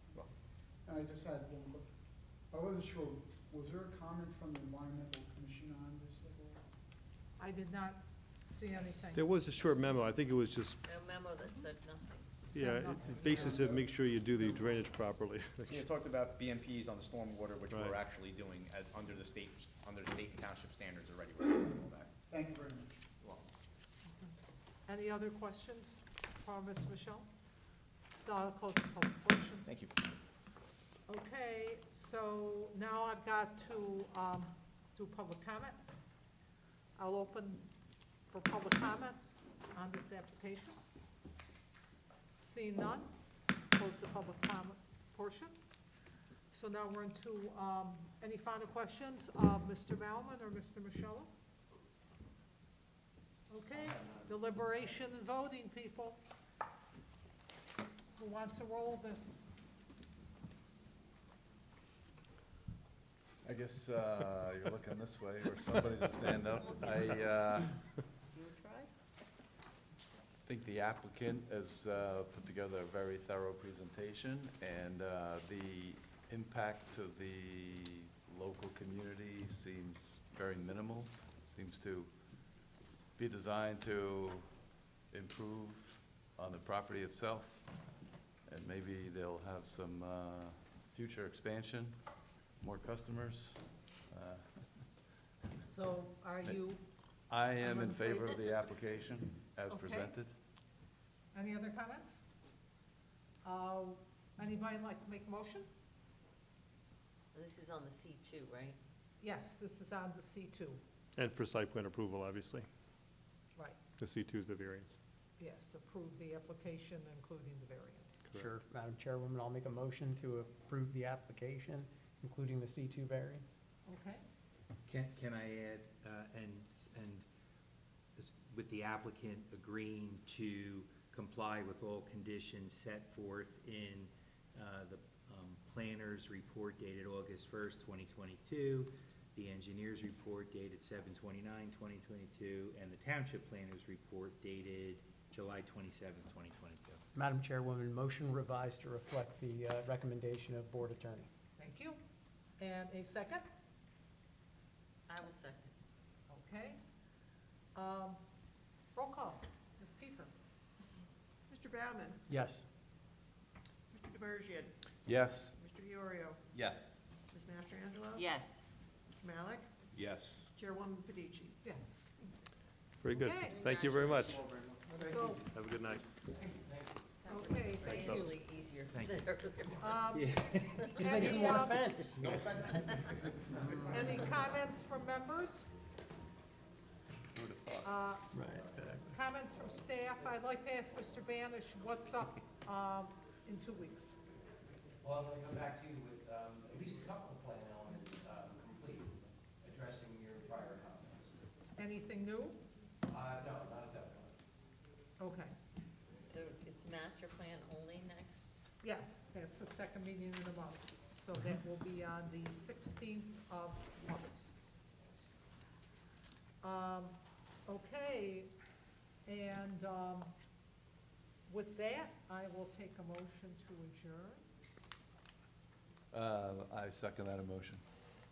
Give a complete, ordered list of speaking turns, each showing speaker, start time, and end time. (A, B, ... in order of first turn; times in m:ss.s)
0:00.9-0:01.9 A
0:02.5-0:06.6 A
0:07.4-0:09.3 B
0:09.1-0:10.8 C
0:10.8-0:13.8 D
0:12.5-0:13.6 B
0:12.6-0:15.7 C
0:15.7-0:22.1 E
0:22.3-0:22.9 A
0:24.9-0:27.3 B
0:28.2-0:29.7 B
0:29.6-0:30.1 E
0:31.1-0:35.8 B
0:37.0-0:37.6 B
0:38.3-0:39.2 B
0:39.7-0:40.8 B
0:42.4-0:43.1 B
0:43.7-0:45.5 B
0:46.5-0:51.3 B
0:53.5-0:56.2 B
0:53.7-0:54.3 F
0:58.2-0:59.4 B
1:03.4-1:07.8 G
1:06.8-1:07.2 D
1:08.3-1:08.9 D
1:10.4-1:22.5 G
1:23.2-1:24.5 G
1:25.1-1:27.7 G
1:28.4-1:32.0 G
1:32.6-1:34.8 G
1:35.6-1:36.8 B
1:37.3-1:40.3 G
1:37.6-1:38.2 B
1:39.7-1:40.2 B
1:41.3-1:42.2 B
1:43.4-1:45.7 B
1:47.3-1:48.8 D
1:49.2-1:50.8 B
1:55.4-1:58.3 B
1:58.3-2:03.5 H
2:03.8-2:04.2 B
2:04.8-2:07.2 I
2:08.2-2:27.0 I
2:27.1-2:31.3 H
2:31.6-2:32.0 B
2:32.6-2:33.4 B
2:35.1-2:35.7 D
2:36.3-2:36.8 B
2:37.7-2:38.2 B
2:38.9-2:40.3 B
2:41.5-2:42.2 J
2:42.3-2:42.6 H
2:43.9-2:44.8 J
2:45.0-2:45.5 G
2:45.4-2:48.4 J
2:48.1-2:48.6 D
2:49.2-2:49.7 J
2:49.9-2:50.4 I
2:50.5-2:51.6 J
2:51.6-2:52.3 B
2:53.0-2:54.2 C
2:53.1-2:53.6 B
2:53.4-2:54.6 D
2:54.4-2:55.4 F
2:55.0-2:55.5 B
2:55.4-2:56.0 C
2:56.4-2:56.9 F
2:57.2-3:00.0 D
2:57.2-2:58.4 B
2:58.9-3:01.2 I
2:59.8-3:00.3 B
3:00.8-3:01.6 D
3:00.9-3:02.0 B
3:01.0-3:02.8 H
3:03.8-3:05.7 B
3:07.8-3:08.4 B
3:08.3-3:09.1 H
3:09.0-3:14.2 B
3:15.0-3:21.3 F
3:21.8-3:22.6 B
3:23.1-3:24.3 F
3:25.2-3:25.5 B
3:26.3-3:28.6 D
3:28.8-3:34.6 B
3:36.6-3:37.2 B
3:37.7-3:38.5 B
3:39.3-3:40.3 B
3:41.5-3:44.4 B
3:46.1-3:47.8 G